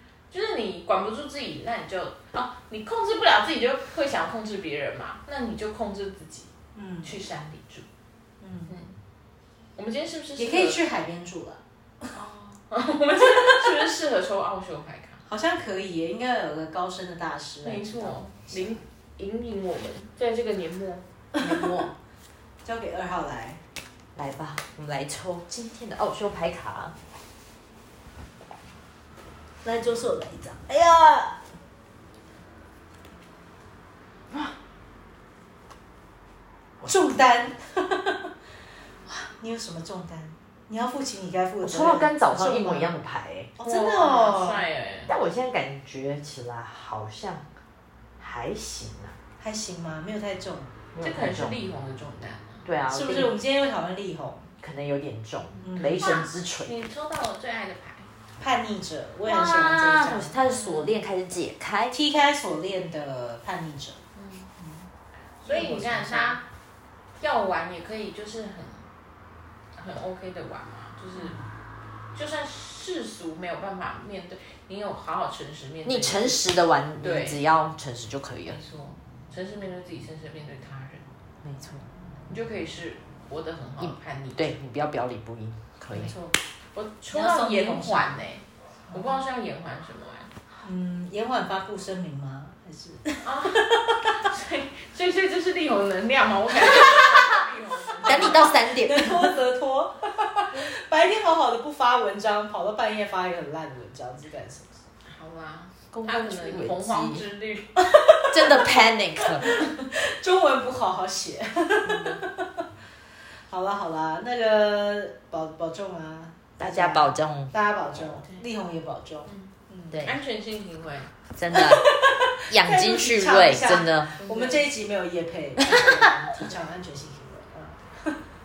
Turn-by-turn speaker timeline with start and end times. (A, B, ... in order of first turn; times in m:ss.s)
0:00.3-0:06.5 A
0:06.7-0:07.2 B
0:07.0-0:07.8 A
0:08.4-0:08.7 B
0:08.7-0:08.9 A
0:09.8-0:10.8 A
0:10.4-0:12.1 B
0:12.1-0:15.2 A
0:15.3-0:18.8 B
0:17.6-0:21.0 A
0:21.3-0:21.9 B
0:21.4-0:21.9 C
0:22.6-0:23.6 B
0:24.2-0:26.9 C
0:29.6-0:31.3 B
0:36.8-0:38.3 B
0:39.1-0:43.0 B
0:41.6-0:43.5 C
0:43.6-0:44.6 B
0:43.6-0:45.1 A
0:45.1-0:47.4 C
0:48.2-0:49.1 C
0:49.4-0:50.8 B
0:50.9-0:51.6 C
0:51.0-0:52.7 A
0:52.6-0:53.3 C
0:52.9-0:54.5 B
0:54.6-0:56.9 C
0:55.6-0:56.2 B
0:55.7-0:58.1 A
0:58.4-1:00.4 B
0:59.2-1:02.0 C
1:00.5-1:01.0 A
1:01.9-1:04.0 B
1:04.1-1:04.5 A
1:04.6-1:04.8 B
1:05.4-1:06.4 A
1:05.4-1:06.4 B
1:07.2-1:08.8 A
1:09.8-1:11.4 A
1:11.1-1:11.5 B
1:12.1-1:17.4 A
1:15.8-1:18.6 C
1:18.4-1:21.0 A
1:21.4-1:21.8 C
1:22.3-1:24.5 A
1:23.8-1:26.1 C
1:25.9-1:26.3 B
1:26.7-1:30.3 A
1:27.1-1:28.2 B
1:28.9-1:29.2 B
1:30.6-1:34.2 B
1:33.2-1:38.5 A
1:36.7-1:37.0 B
1:36.7-1:37.3 C
1:38.0-1:39.3 C
1:38.0-1:44.8 B
1:45.1-1:47.8 A
1:45.9-1:47.2 C
1:47.8-1:52.6 B
1:48.3-1:49.5 C
1:51.8-1:52.2 C
1:53.5-2:00.0 B
1:56.6-1:57.5 C
1:59.3-1:59.5 A
1:59.9-2:00.2 C
2:00.0-2:01.1 A
2:01.3-2:01.9 C
2:01.5-2:08.2 B
2:02.5-2:04.2 C
2:04.2-2:04.6 A
2:05.6-2:06.1 C